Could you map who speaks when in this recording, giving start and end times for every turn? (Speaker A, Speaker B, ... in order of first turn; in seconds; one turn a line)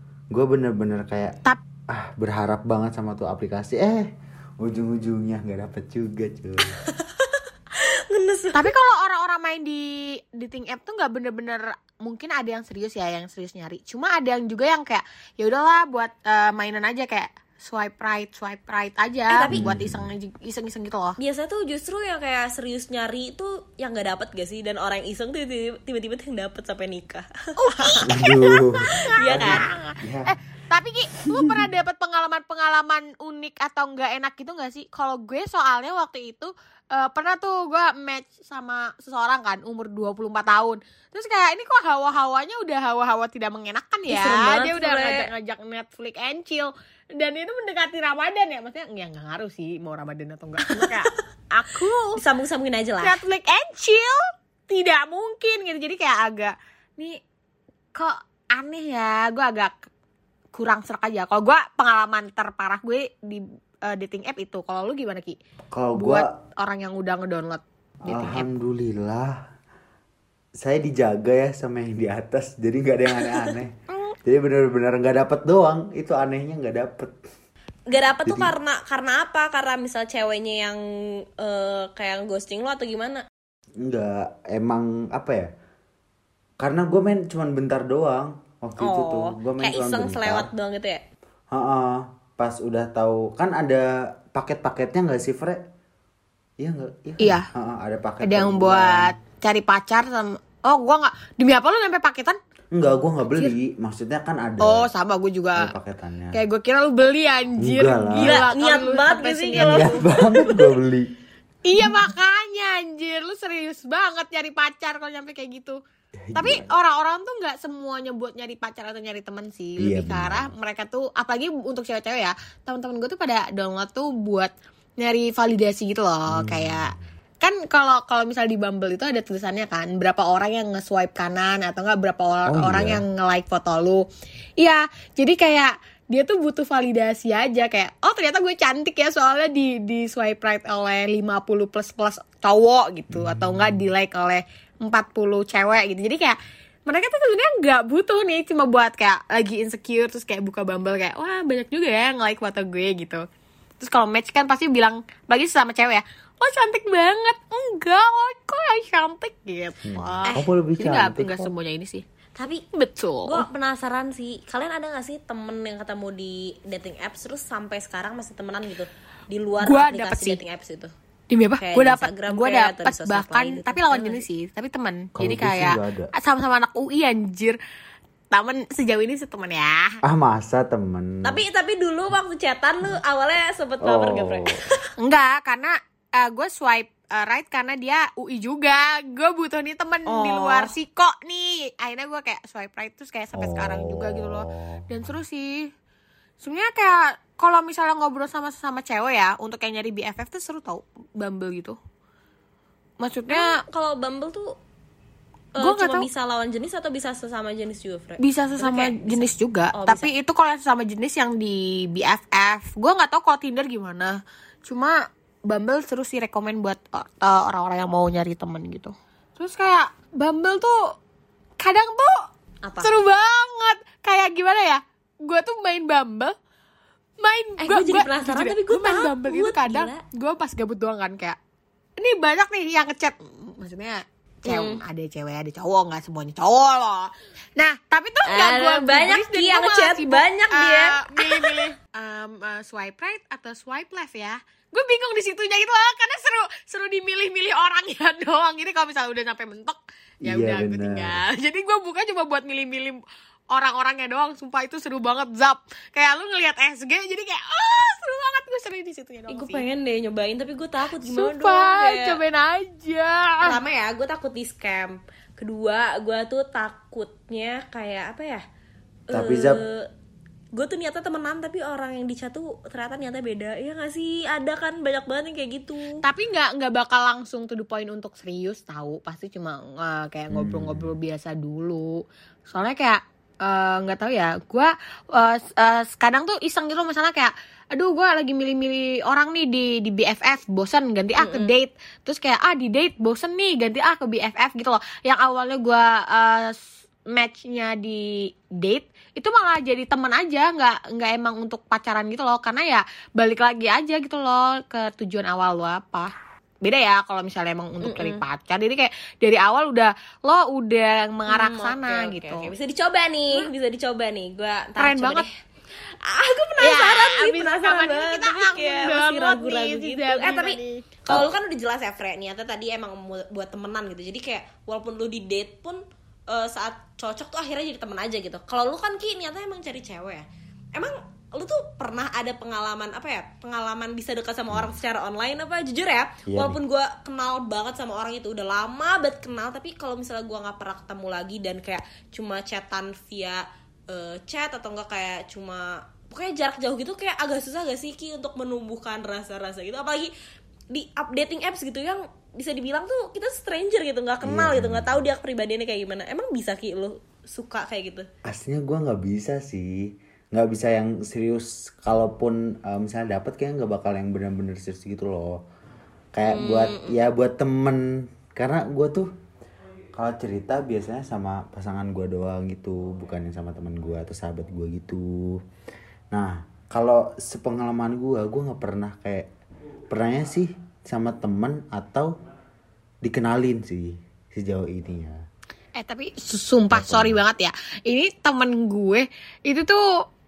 Speaker A: 0.3-1.4
Speaker A: 1.9-6.8
Speaker B: 6.8-8.7
Speaker C: 8.5-21.2
Speaker B: 19.3-19.7
Speaker A: 19.5-20.1
Speaker B: 21.2-28.2
Speaker C: 27.6-52.2
Speaker A: 28.1-30.3
Speaker B: 29.1-29.6
Speaker B: 44.1-45.3
Speaker B: 52.1-53.2
Speaker C: 53.0-57.2
Speaker C: 58.0-59.9
Speaker C: 60.5-65.4
Speaker A: 65.7-66.3
Speaker C: 66.0-68.5
Speaker A: 68.1-69.4
Speaker A: 70.6-77.2
Speaker B: 73.2-73.5
Speaker B: 77.9-83.2
Speaker A: 78.2-78.5
Speaker A: 83.8-85.5
Speaker A: 86.6-90.5
Speaker B: 88.8-91.0
Speaker A: 91.5-95.6
Speaker A: 96.6-99.1
Speaker C: 97.2-97.5
Speaker C: 98.2-102.4
Speaker A: 102.7-104.9
Speaker C: 104.6-105.7
Speaker A: 105.6-106.4
Speaker C: 106.3-110.1
Speaker A: 107.6-108.5
Speaker B: 108.2-110.7
Speaker A: 109.5-111.1
Speaker C: 111.7-115.8
Speaker A: 116.3-116.7
Speaker C: 116.3-134.0
Speaker A: 119.8-120.5
Speaker A: 126.3-126.9
Speaker A: 132.5-133.0
Speaker C: 134.6-153.2
Speaker A: 143.1-143.8
Speaker C: 153.8-162.0
Speaker A: 159.8-161.5
Speaker B: 162.4-162.6
Speaker C: 162.7-163.5
Speaker B: 163.3-170.9
Speaker C: 169.6-170.4
Speaker C: 171.3-177.6
Speaker B: 171.6-174.2
Speaker A: 175.2-176.1
Speaker C: 178.3-180.0
Speaker A: 180.0-181.4
Speaker B: 181.2-184.6
Speaker A: 183.8-184.6
Speaker C: 185.0-195.7
Speaker B: 190.1-190.7
Speaker A: 193.3-195.2
Speaker C: 196.4-201.8
Speaker C: 203.0-203.6
Speaker B: 203.3-204.6
Speaker B: 205.6-210.1
Speaker C: 205.6-206.1
Speaker C: 208.2-220.9
Speaker C: 221.6-222.3
Speaker B: 222.6-222.9
Speaker C: 222.8-226.3
Speaker C: 227.2-231.4
Speaker B: 227.6-230.0
Speaker C: 232.0-253.0
Speaker B: 234.5-234.8
Speaker B: 238.2-241.7
Speaker A: 250.2-251.2
Speaker C: 253.5-259.6
Speaker B: 259.3-262.2
Speaker C: 261.0-263.6
Speaker B: 263.4-268.4
Speaker B: 269.1-269.9
Speaker A: 269.1-269.6
Speaker B: 270.6-276.0
Speaker C: 276.0-281.9
Speaker A: 280.3-280.9
Speaker C: 282.5-296.6
Speaker B: 291.2-291.5
Speaker C: 297.1-306.1
Speaker C: 306.6-312.5
Speaker B: 307.8-308.2
Speaker B: 311.3-315.3
Speaker C: 314.8-315.3
Speaker B: 316.0-350.1
Speaker C: 316.6-320.9
Speaker A: 336.3-336.6
Speaker B: 350.7-358.1
Speaker A: 354.2-355.1
Speaker A: 358.3-365.4
Speaker A: 366.1-369.1
Speaker B: 366.3-367.0
Speaker A: 369.9-375.4
Speaker A: 376.1-379.3
Speaker A: 379.9-382.1
Speaker A: 383.0-385.2
Speaker C: 385.8-389.8
Speaker A: 386.7-387.2